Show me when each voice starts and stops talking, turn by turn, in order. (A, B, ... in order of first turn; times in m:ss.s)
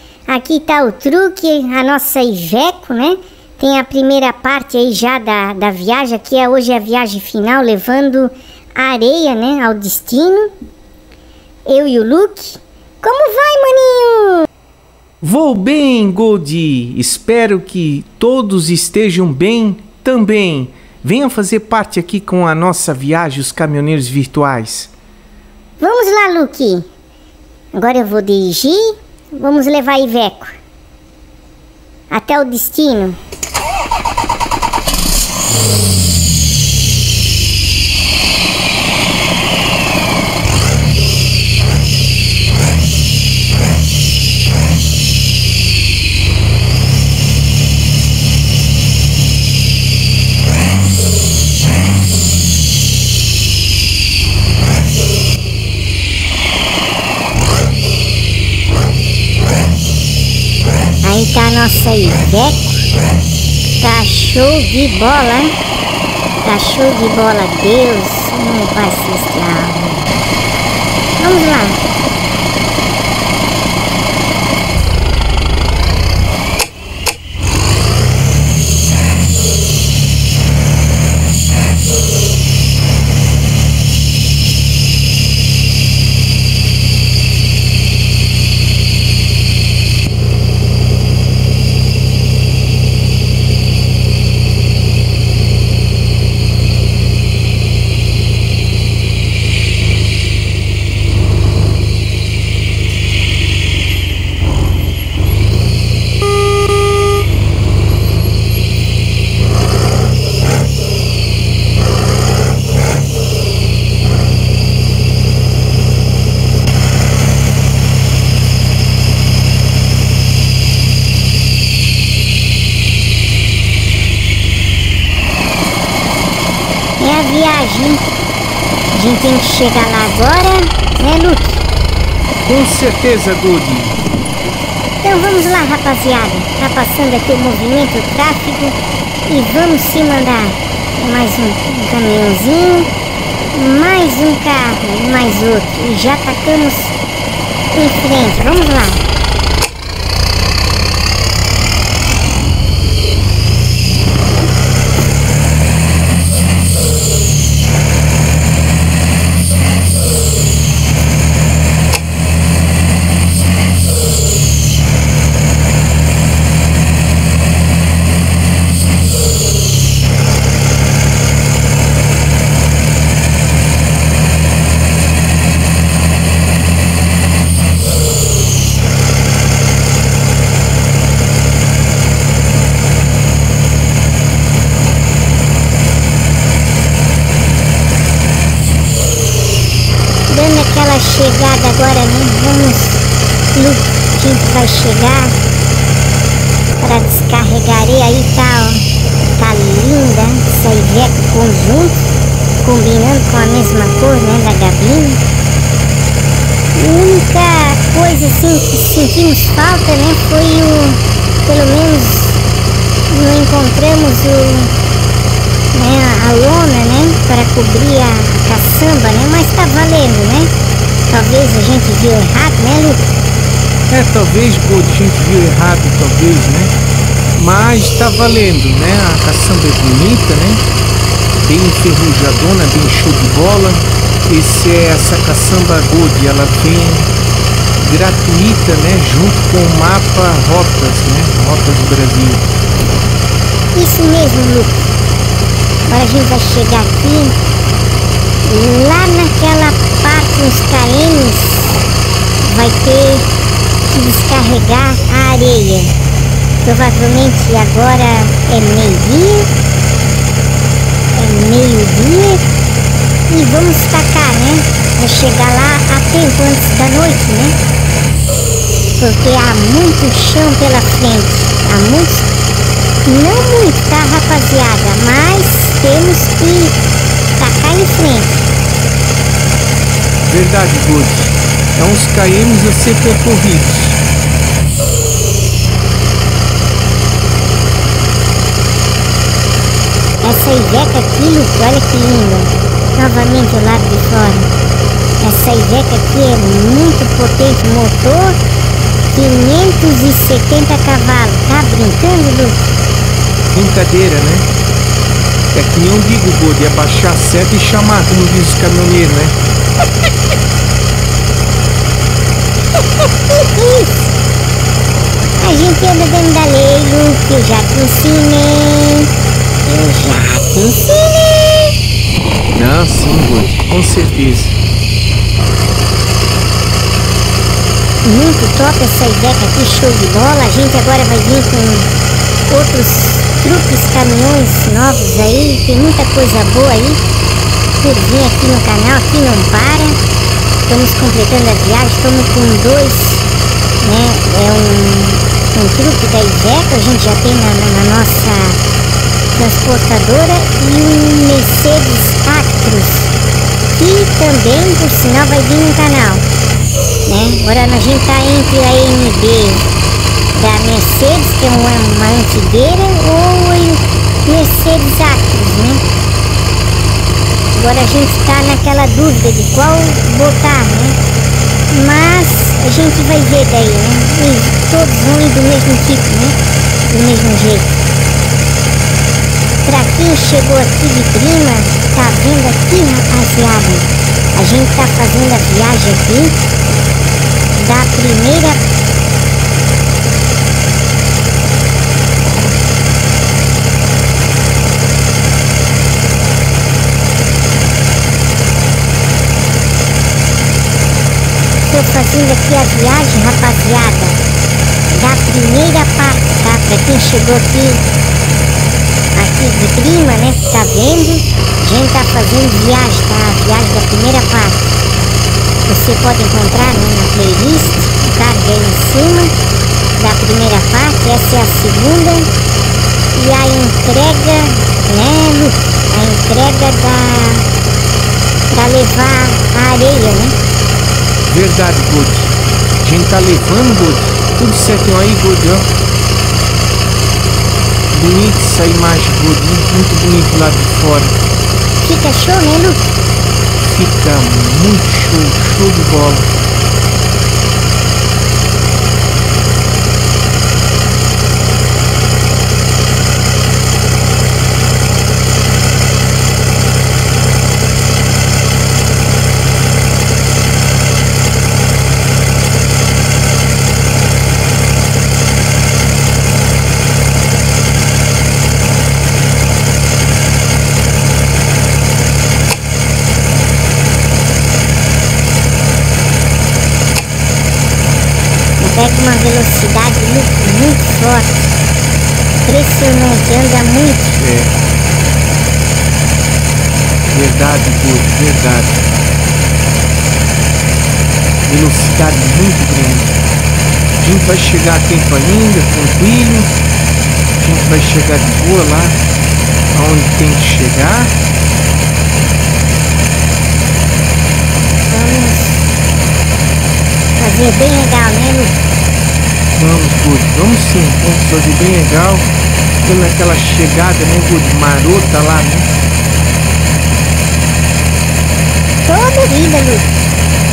0:00.3-0:10.5 A
0:11.6-0:14.5 A
0:15.2-0:24.9 B
0:25.8-0:26.9 A
0:27.7-0:30.5 A
0:32.1-0:33.2 A
1:01.0-1:02.8 A
1:03.8-1:05.5 A
1:06.4-1:10.1 A
1:11.2-1:11.8 A
2:07.0-2:08.0 A
2:08.9-2:11.6 A
2:12.4-2:14.0 B
2:15.0-2:22.9 A
2:23.5-2:27.0 A
2:27.7-2:29.0 A
3:10.3-3:15.4 A
3:16.8-3:18.8 A
3:19.4-3:22.0 A
3:22.6-3:25.2 A
3:26.7-3:32.4 A
3:33.1-3:34.7 A
3:35.7-3:40.5 A
3:41.1-3:43.1 A
3:43.9-3:46.7 B
3:47.3-3:50.6 B
3:51.4-3:57.1 B
3:57.8-4:02.4 B
4:03.7-4:04.9 A
4:05.9-4:07.4 A
4:08.4-4:11.8 A
4:12.4-4:13.3 A
4:13.8-4:15.9 A
4:16.6-4:19.5 A
4:21.1-4:22.4 A
4:23.3-4:27.6 A
4:29.0-4:32.3 A
4:33.0-4:36.8 A
4:37.4-4:38.5 A
4:40.3-4:44.0 B
4:50.2-4:54.5 A
4:55.2-4:58.4 A
4:59.1-5:02.7 A
5:03.5-5:04.5 B
5:05.5-5:09.4 B
5:13.2-5:14.1 A
5:15.4-5:19.1 A
5:19.6-5:21.7 A
5:22.5-5:24.6 B
5:28.0-5:31.9 A
5:32.5-5:37.0 A
5:37.7-5:40.0 A
5:40.6-5:43.2 A
5:43.8-5:48.6 A
5:49.3-5:53.1 A
5:53.7-5:56.2 A
5:57.0-5:59.6 A
6:00.3-6:05.8 A
6:07.5-6:11.0 A
6:11.7-6:16.4 A
6:16.9-6:17.8 A
6:19.6-6:26.4 A
6:27.5-6:28.6 A
6:41.7-6:44.2 A
6:44.9-6:47.8 A
6:49.1-6:54.7 A
6:55.6-6:59.3 A
6:59.9-7:02.3 A
7:03.1-7:07.4 A
7:08.5-7:10.4 A
7:11.2-7:15.7 B
7:17.9-7:21.2 B
7:21.8-7:22.9 A
7:23.6-7:26.3 B
7:58.6-8:01.6 A
8:02.4-8:04.2 A
8:04.2-8:04.5 B
8:07.1-8:08.8 B
8:11.4-8:13.2 B
8:14.0-8:16.5 B
8:17.4-8:19.0 B
8:19.7-8:21.1 B
8:24.9-8:25.6 A
8:27.2-8:28.6 A
8:29.5-8:32.3 B
8:32.8-8:35.7 B
8:38.8-8:39.9 A